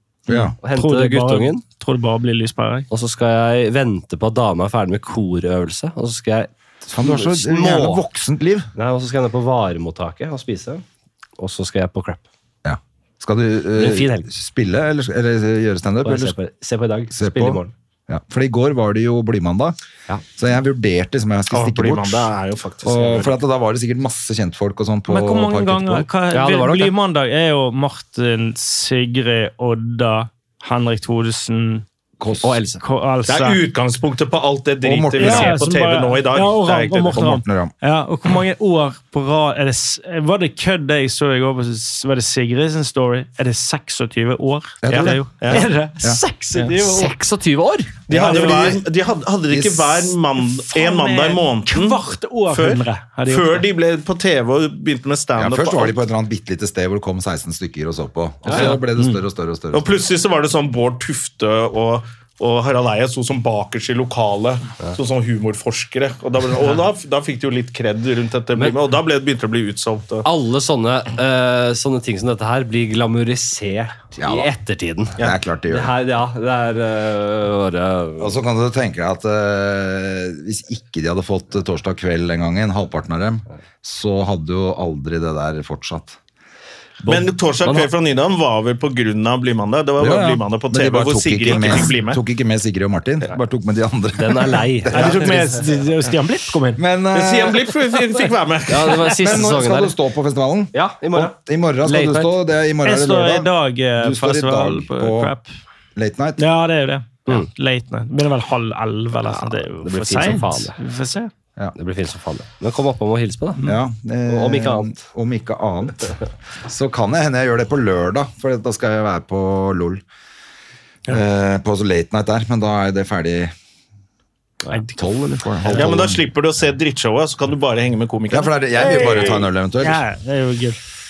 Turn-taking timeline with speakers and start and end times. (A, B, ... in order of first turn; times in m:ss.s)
0:00.3-0:00.6 A
0:00.3-0:02.9 B
0:00.6-0:01.7 C
0:02.9-0:08.0 C
0:06.9-0:08.7 A
0:08.8-0:10.8 C
0:11.4-0:12.2 C
0:12.6-0:16.4 A
0:13.8-0:14.3 C
0:16.0-0:17.7 C
0:17.1-0:19.8 A
0:20.4-0:22.3 A
0:21.5-0:23.4 D
0:22.8-0:26.1 A
0:25.1-0:31.9 B
0:26.3-0:27.0 C
0:32.2-0:32.8 A
0:32.8-0:33.6 B
0:33.3-0:37.4 D
0:34.8-0:35.6 A
0:35.2-0:47.3 B
0:37.2-0:37.7 A
0:44.8-0:46.2 A
0:44.9-0:45.7 D
0:46.7-0:48.1 C
0:48.1-0:56.0 D
0:48.1-0:48.8 B
0:49.5-0:50.0 A
0:50.4-0:53.7 B
0:55.4-0:59.9 A
0:58.5-0:58.8 D
0:59.7-1:10.3 D
1:10.2-1:18.3 C
1:14.2-1:14.5 A
1:15.2-1:15.9 A
1:18.2-1:26.2 A
1:27.0-1:27.9 C
1:27.1-1:32.2 D
1:30.0-1:35.6 A
1:34.2-1:35.4 C
1:34.9-1:36.8 B
1:36.8-1:37.8 A
1:37.1-1:39.1 D
1:38.7-1:40.0 C
1:39.2-1:45.3 A
1:40.7-1:42.4 C
1:42.8-1:45.5 B
1:46.0-1:46.4 A
1:46.4-1:51.3 B
1:47.2-1:47.5 C
1:49.8-1:50.8 C
1:51.8-1:53.7 C
1:53.6-2:00.0 A
1:54.3-1:55.0 C
2:01.1-2:03.5 A
2:04.7-2:05.7 B
2:05.0-2:06.2 A
2:05.6-2:06.1 C
2:05.7-2:09.4 D
2:08.3-2:10.0 A
2:08.8-2:10.8 B